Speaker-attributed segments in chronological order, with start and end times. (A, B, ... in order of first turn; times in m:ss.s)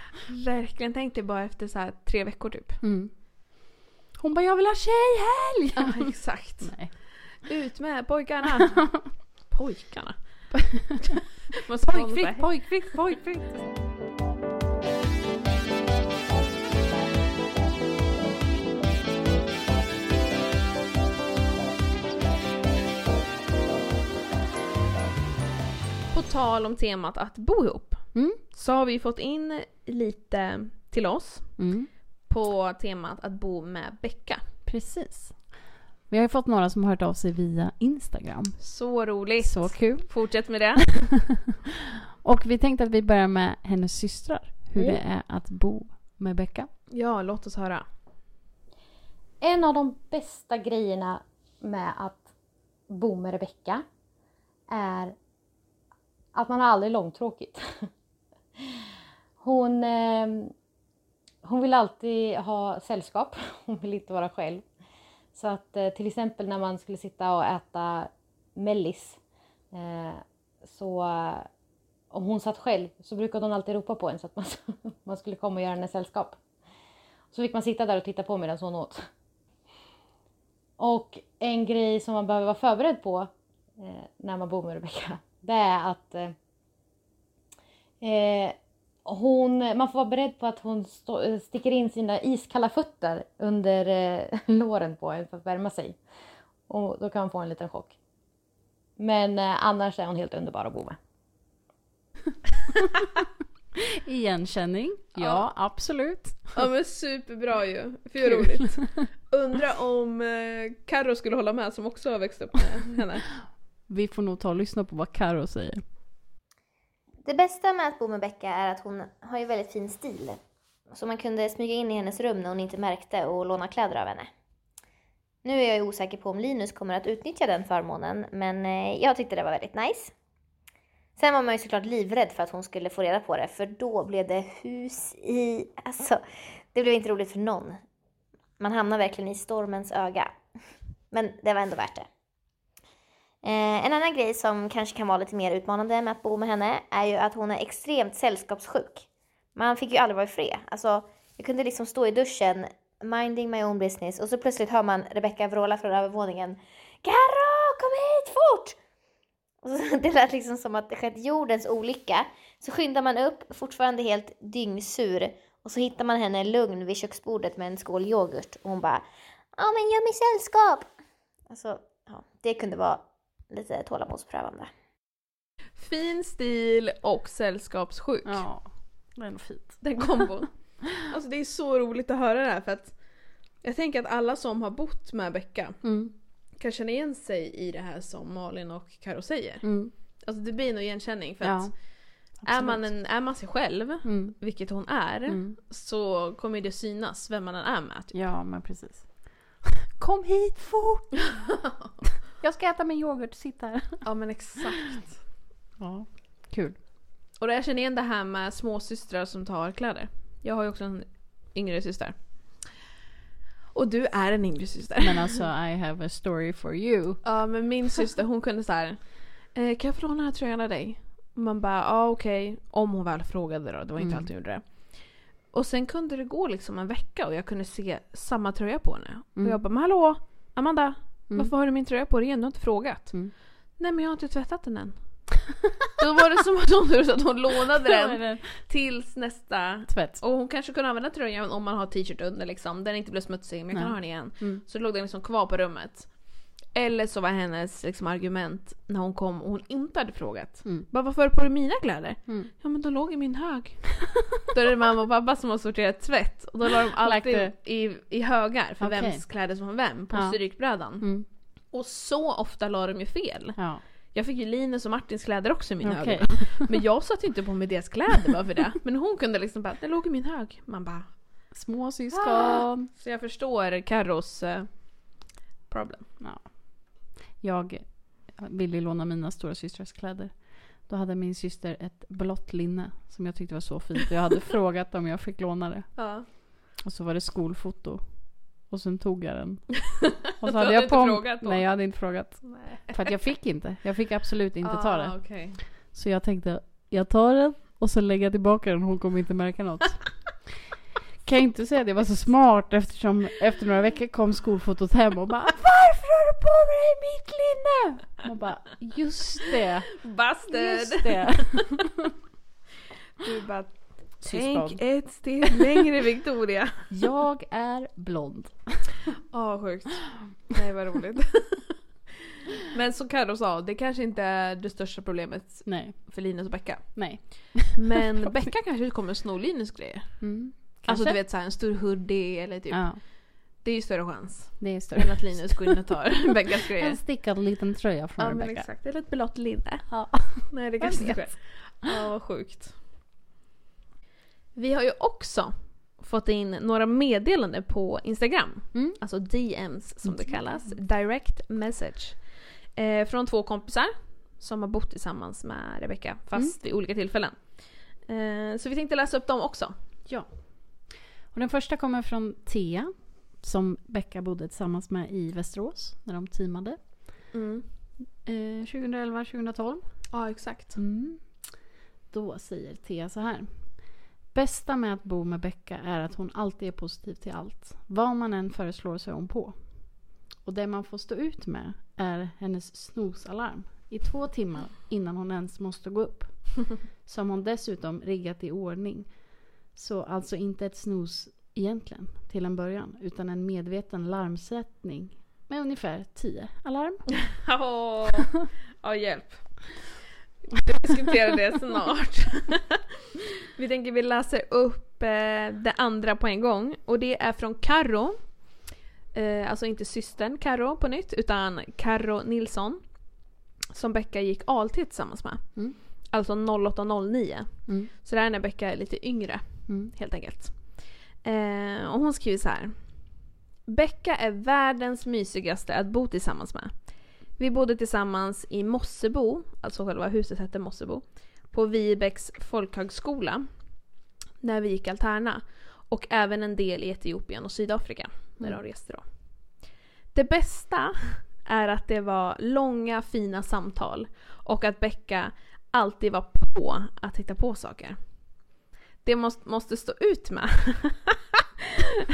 0:00.2-0:02.8 A
0:02.8-0:03.1 B
0:04.2-0:06.1 B
0:05.7-0:10.5 A
0:06.6-0:06.9 B
0:11.6-0:12.6 A
0:11.8-0:13.6 B
0:26.1-0:31.6 A
0:28.1-0:28.4 B
0:31.6-0:31.9 B
0:32.3-0:34.4 A
0:34.6-0:35.6 B
0:36.1-0:38.6 B
0:38.6-0:41.2 A
0:39.4-0:40.3 B
0:42.2-0:46.7 B
0:46.9-0:47.8 A
0:49.4-0:52.3 C
0:52.9-0:53.8 C
0:54.7-0:55.2 C
0:56.3-0:57.8 C
0:59.4-1:00.5 C
1:01.4-1:04.6 C
1:05.3-1:09.2 C
1:09.7-1:11.5 C
1:12.1-1:16.4 C
1:17.3-1:19.0 C
1:20.8-1:26.3 C
1:28.0-1:36.0 C
1:36.7-1:37.9 C
1:39.0-1:41.0 C
1:44.0-1:46.6 B
1:45.2-1:45.5 A
1:46.5-1:53.3 A
1:48.2-1:49.0 B
1:53.9-1:55.8 B
1:57.2-2:00.4 D
2:00.9-2:04.3 D
2:05.4-2:10.1 D
2:11.2-2:16.2 D
2:16.7-2:17.8 D
2:18.6-2:20.3 D
2:21.1-2:22.0 D
2:23.4-2:38.8 D
2:39.6-2:49.0 D
2:49.6-2:50.9 D
2:51.5-2:54.7 D
2:55.8-2:58.4 A
2:58.2-3:00.4 B
2:59.8-3:03.0 A
3:03.6-3:05.8 A
3:05.8-3:06.1 B
3:06.6-3:09.7 A
3:09.6-3:09.9 B
3:10.2-3:11.8 A
3:11.4-3:11.7 B
3:12.3-3:12.9 B
3:12.4-3:18.1 A
3:14.0-3:14.4 B
3:15.3-3:15.6 B
3:18.1-3:21.2 B
3:22.2-3:24.1 B
3:24.0-3:25.1 A
3:25.8-3:26.8 B
3:27.4-3:32.8 A
3:33.7-3:35.4 A
3:35.0-3:37.3 B
3:37.2-3:45.0 A
3:44.0-3:44.3 B
3:45.5-3:55.0 A
3:56.0-4:06.1 A
3:57.8-3:58.5 B
3:59.9-4:00.2 B
4:03.7-4:04.6 B
4:06.7-4:21.1 A
4:16.9-4:17.5 B
4:18.8-4:19.2 B
4:20.1-4:20.4 B
4:21.0-4:21.2 B
4:21.7-4:31.2 A
4:23.6-4:23.8 B
4:25.8-4:26.8 B
4:31.5-4:32.9 B
4:32.1-4:34.9 A
4:35.7-4:36.1 A
4:36.2-5:00.4 B
4:46.0-4:46.2 A
4:50.0-4:51.8 A
4:52.4-4:53.1 A
4:54.6-4:55.6 A
5:01.2-5:12.0 B
5:10.0-5:11.8 A
5:13.2-5:16.9 A
5:14.2-5:15.6 B
5:16.9-5:18.9 B
5:19.3-5:21.8 A
5:22.6-5:37.0 A
5:25.6-5:26.1 B
5:26.9-5:28.4 B
5:30.2-5:31.2 B
5:32.7-5:33.0 B
5:34.6-5:35.8 B
5:36.8-5:38.7 B
5:38.2-5:42.8 A
5:39.9-5:41.6 B
5:44.5-5:52.2 A
5:48.7-5:49.0 B
5:50.0-5:50.8 B
5:52.8-5:59.7 A
6:00.0-6:07.3 B
6:07.3-6:07.6 A
6:08.2-6:10.1 B
6:10.1-6:10.8 A
6:10.7-6:37.2 B
6:37.3-6:40.0 A
6:40.5-6:42.8 A
6:43.5-6:48.5 A
6:49.1-6:53.0 A
6:53.7-7:03.0 A
6:59.7-6:59.9 B
7:03.6-7:13.5 A
7:14.4-7:19.0 A
7:20.1-7:28.0 A
7:29.0-7:31.4 A